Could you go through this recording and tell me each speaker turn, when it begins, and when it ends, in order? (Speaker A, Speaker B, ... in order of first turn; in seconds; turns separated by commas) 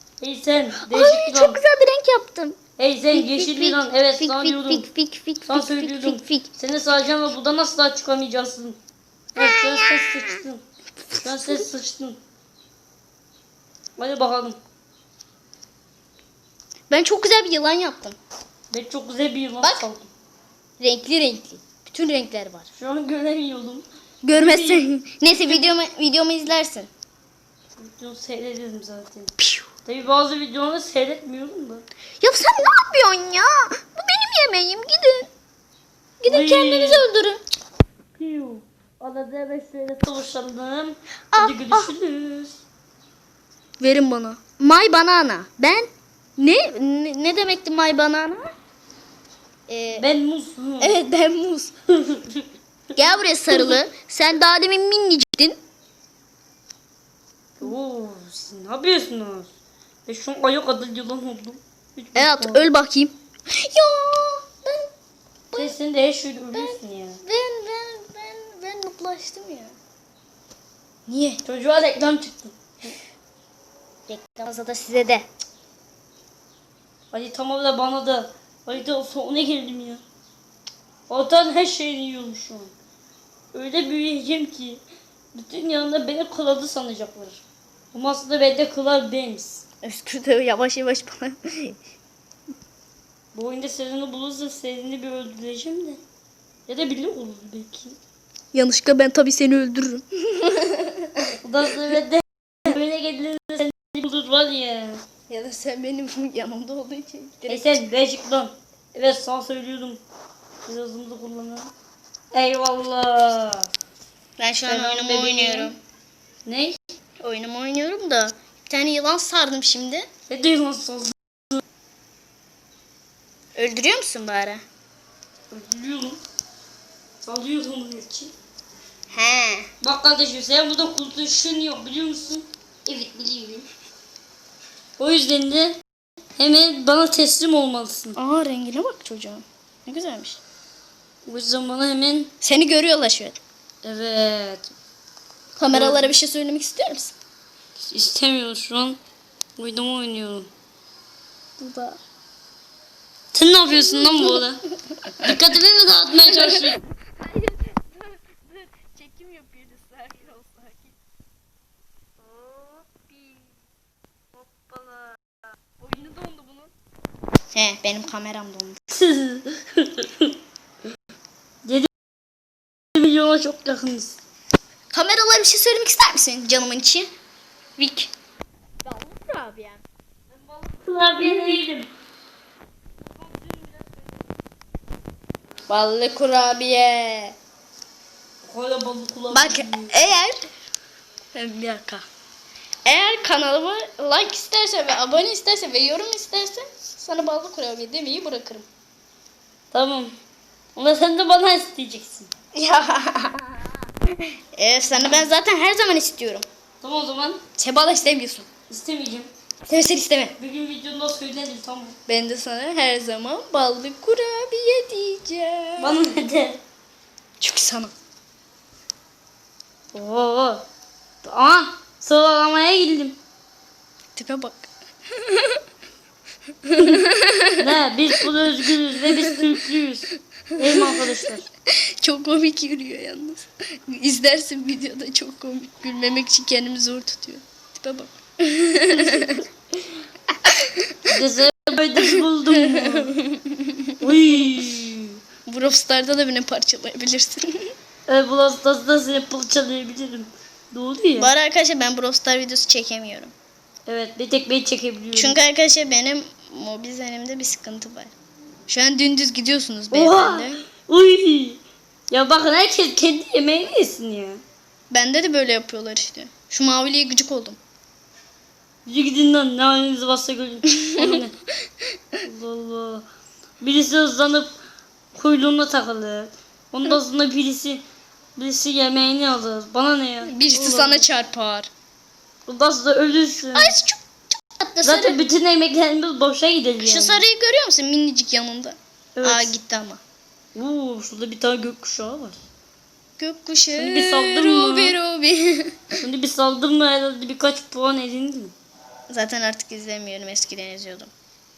Speaker A: 0.2-1.6, Speaker B: 0.8-2.6, Speaker A: 2.8-4.9, Speaker B: 3.1-6.5, Speaker A: 5.5-8.8, Speaker A: 9.3-10.6, Speaker B: 9.4-10.4, Speaker A: 11.2-12.2, Speaker A: 14.0-14.6, Speaker B: 16.9-18.2, Speaker A: 18.7-20.1, Speaker B: 20.8-22.7, Speaker A: 22.8-25.6, Speaker B: 24.2-26.9, Speaker A: 27.8-29.3, Speaker B: 29.4-29.7, Speaker A: 29.9-31.8, Speaker B: 32.2-35.3, Speaker B: 36.2-37.4, Speaker A: 36.2-37.0, Speaker A: 38.2-42.6, Speaker B: 41.3-41.9, Speaker B: 43.8-48.5, Speaker B: 49.7-50.1, Speaker A: 50.0-51.0, Speaker B: 50.8-51.7, Speaker A: 51.9-52.5, Speaker B: 52.9-55.6, Speaker A: 53.5-53.8, Speaker A: 57.6-59.5, Speaker A: 60.1-62.6, Speaker B: 62.1-64.9, Speaker A: 65.5-67.2, Speaker B: 66.5-69.7, Speaker B: 71.1-71.4, Speaker A: 71.4-72.9, Speaker B: 74.1-75.2, Speaker A: 77.1-80.0, Speaker A: 81.1-82.7, Speaker A: 83.5-84.8, Speaker A: 85.3-89.6, Speaker B: 89.8-91.8, Speaker A: 93.3-96.0, Speaker A: 96.7-98.0, Speaker B: 98.5-101.3, Speaker A: 101.4-105.0, Speaker B: 105.3-107.8, Speaker A: 107.5-110.0, Speaker A: 110.6-111.7, Speaker A: 112.3-113.7, Speaker B: 114.4-115.8, Speaker A: 114.7-115.7, Speaker A: 116.5-116.8, Speaker B: 117.2-120.0, Speaker A: 120.3-121.6, Speaker B: 123.5-124.6, Speaker A: 125.5-126.2, Speaker A: 127.2-128.3, Speaker B: 129.1-129.7, Speaker A: 129.8-133.7, Speaker A: 135.0-135.8, Speaker A: 136.4-138.2, Speaker B: 138.1-140.4, Speaker A: 141.2-142.3, Speaker B: 142.4-143.4, Speaker A: 143.8-144.7, Speaker B: 145.6-147.2, Speaker A: 145.7-146.1, Speaker A: 147.8-149.0, Speaker A: 149.6-150.5, Speaker B: 151.6-152.0, Speaker A: 153.3-154.6, Speaker B: 153.7-154.4, Speaker A: 155.2-156.8, Speaker B: 156.3-160.9, Speaker A: 162.2-163.4, Speaker A: 164.3-165.2, Speaker A: 165.9-166.6, Speaker B: 167.5-168.8, Speaker A: 168.9-170.3, Speaker A: 171.6-171.9, Speaker A: 172.9-174.2, Speaker B: 174.9-177.1, Speaker B: 177.8-178.1, Speaker B: 178.8-179.8, Speaker A: 180.3-181.9, Speaker B: 181.2-181.6, Speaker A: 183.1-184.2, Speaker B: 185.7-187.3, Speaker A: 188.4-189.9, Speaker B: 189.3-190.4, Speaker B: 191.3-192.0, Speaker B: 192.8-198.7, Speaker A: 199.7-200.1, Speaker A: 200.8-202.3, Speaker B: 202.5-203.6, Speaker B: 204.5-206.4, Speaker A: 206.8-207.4, Speaker B: 207.6-208.5, Speaker A: 208.7-209.3, Speaker B: 209.7-210.3, Speaker A: 210.4-211.9, Speaker B: 212.1-216.0, Speaker A: 215.8-216.6, Speaker B: 217.4-217.9, Speaker A: 219.9-220.6, Speaker A: 221.2-223.2, Speaker B: 224.2-225.6, Speaker B: 226.6-227.7, Speaker A: 227.6-231.4, Speaker B: 229.3-229.5, Speaker B: 230.6-231.0, Speaker B: 231.7-239.4, Speaker A: 239.0-239.3, Speaker B: 240.4-241.2, Speaker A: 241.1-243.1, Speaker B: 242.5-244.6, Speaker A: 244.0-245.2, Speaker B: 245.4-247.7, Speaker A: 248.1-251.3, Speaker B: 251.2-253.3, Speaker A: 253.9-255.4, Speaker B: 255.1-258.1, Speaker B: 258.7-260.6, Speaker A: 259.9-264.4, Speaker B: 264.9-267.6, Speaker A: 268.9-271.3, Speaker B: 270.7-271.2, Speaker A: 272.2-273.1, Speaker A: 273.6-274.5, Speaker A: 275.1-277.8, Speaker A: 278.4-281.0, Speaker B: 280.2-281.7, Speaker A: 282.5-283.7, Speaker B: 283.5-285.2, Speaker A: 284.8-287.2, Speaker B: 286.8-290.0, Speaker A: 289.1-289.5, Speaker A: 290.5-292.4, Speaker B: 293.2-295.9, Speaker A: 293.7-294.9, Speaker A: 296.0-298.5, Speaker B: 299.1-301.1